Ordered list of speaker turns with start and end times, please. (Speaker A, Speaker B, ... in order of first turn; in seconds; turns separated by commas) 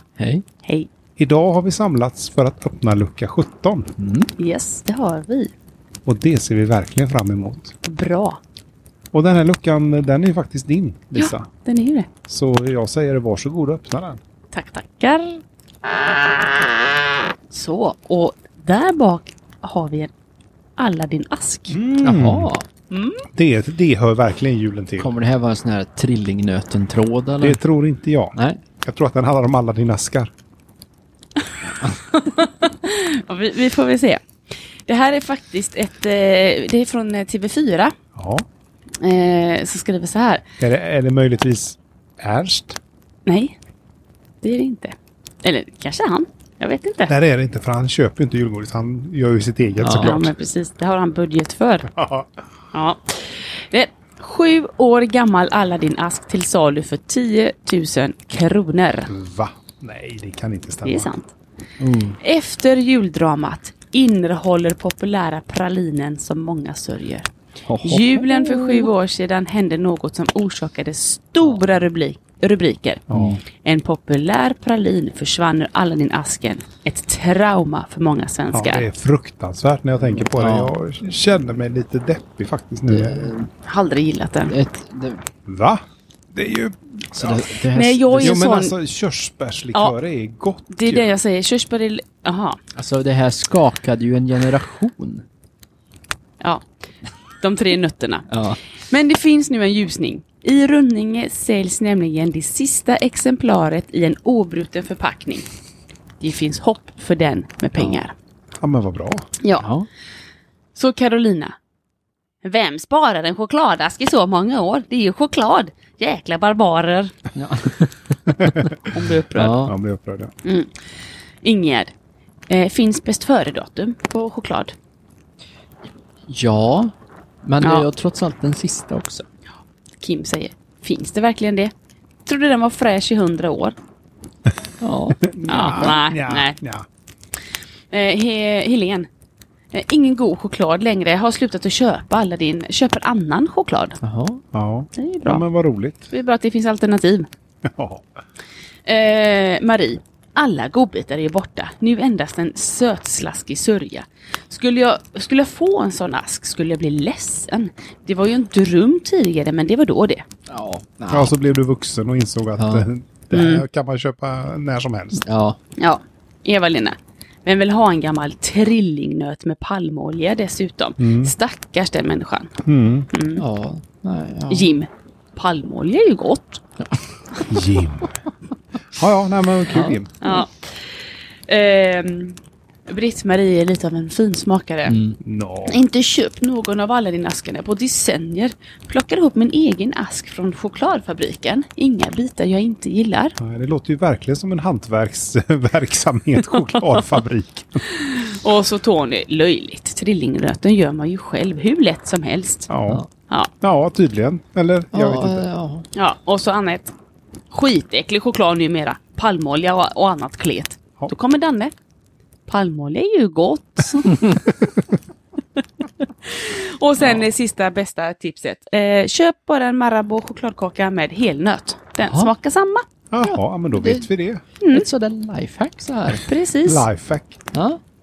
Speaker A: 0.2-0.4, Speaker B: 0.6-0.9, Speaker C: 1.2-3.9, Speaker A: 4.0-4.3, Speaker B: 4.4-5.5, Speaker C: 6.0-7.7, Speaker B: 7.8-8.4, Speaker C: 9.1-11.5, Speaker B: 11.1-12.1, Speaker C: 12.3-14.2, Speaker B: 14.5-15.4, Speaker B: 17.5-20.1, Speaker B: 20.8-21.8, Speaker C: 21.7-22.5, Speaker A: 22.0-22.6, Speaker B: 22.9-23.2, Speaker C: 23.3-25.1, Speaker A: 25.0-27.6, Speaker C: 27.4-30.3, Speaker A: 28.3-28.6, Speaker B: 31.8-34.2, Speaker B: 34.9-37.9, Speaker C: 38.1-38.4, Speaker B: 39.0-40.4, Speaker C: 40.6-42.8, Speaker B: 43.2-43.5, Speaker B: 44.4-47.1, Speaker C: 47.1-50.3, Speaker A: 49.8-50.2, Speaker B: 50.0-51.9, Speaker C: 51.9-52.3, Speaker B: 52.7-59.1, Speaker C: 59.1-61.1, Speaker B: 60.8-61.3, Speaker A: 61.8-62.2, Speaker B: 62.2-67.3, Speaker A: 67.7-68.9, Speaker B: 67.8-78.9, Speaker C: 73.1-73.4, Speaker A: 73.1-73.4, Speaker C: 78.5-83.3, Speaker A: 80.2-80.8, Speaker A: 82.9-83.5, Speaker B: 83.6-84.5, Speaker A: 84.5-85.2, Speaker C: 85.5-87.5, Speaker A: 87.2-88.4, Speaker B: 87.7-88.7, Speaker C: 88.2-91.1, Speaker B: 90.7-92.6, Speaker A: 92.8-95.2, Speaker B: 97.3-98.3, Speaker A: 98.3-98.6, Speaker B: 98.8-105.5, Speaker B: 106.2-108.1, Speaker A: 107.7-108.0, Speaker C: 108.6-109.3, Speaker B: 109.4-109.7, Speaker A: 109.6-109.9, Speaker B: 110.7-111.5, Speaker B: 112.4-117.1, Speaker A: 117.3-117.9, Speaker B: 118.9-119.6, Speaker A: 119.3-119.7, Speaker C: 119.6-120.3, Speaker B: 120.4-120.8, Speaker B: 121.4-121.9, Speaker B: 122.5-124.7, Speaker A: 126.3-126.9, Speaker A: 127.4-129.2, Speaker B: 127.6-127.9, Speaker B: 130.0-131.7, Speaker B: 132.2-133.8, Speaker A: 134.8-135.2, Speaker C: 135.2-136.8, Speaker B: 135.4-136.6, Speaker B: 137.9-139.1, Speaker B: 139.7-144.0, Speaker A: 144.0-144.4, Speaker C: 144.5-146.1, Speaker B: 144.9-145.4, Speaker B: 146.1-147.3, Speaker C: 147.6-148.1, Speaker B: 148.8-160.2, Speaker A: 160.5-161.3, Speaker C: 161.1-165.2, Speaker A: 162.6-162.9, Speaker B: 163.3-163.6, Speaker A: 165.2-165.6, Speaker B: 165.8-172.5, Speaker C: 171.0-171.3, Speaker C: 172.6-173.1, Speaker B: 173.1-173.4, Speaker A: 173.4-174.7, Speaker B: 174.5-176.6, Speaker C: 177.5-178.1, Speaker C: 178.9-180.1, Speaker A: 179.7-180.0, Speaker B: 180.2-185.0, Speaker A: 184.9-185.2, Speaker C: 185.2-185.8, Speaker B: 185.7-193.3, Speaker C: 193.4-197.8, Speaker B: 197.9-202.7, Speaker C: 202.7-203.0, Speaker C: 203.6-205.5, Speaker A: 204.9-205.8, Speaker B: 205.9-206.9, Speaker B: 207.5-211.7, Speaker B: 212.5-214.2, Speaker B: 216.0-222.8, Speaker A: 222.0-222.3, Speaker C: 223.1-224.4, Speaker A: 223.2-224.1, Speaker B: 224.6-224.9, Speaker A: 224.7-226.2, Speaker B: 226.2-226.9, Speaker C: 226.6-227.4, Speaker A: 227.5-227.8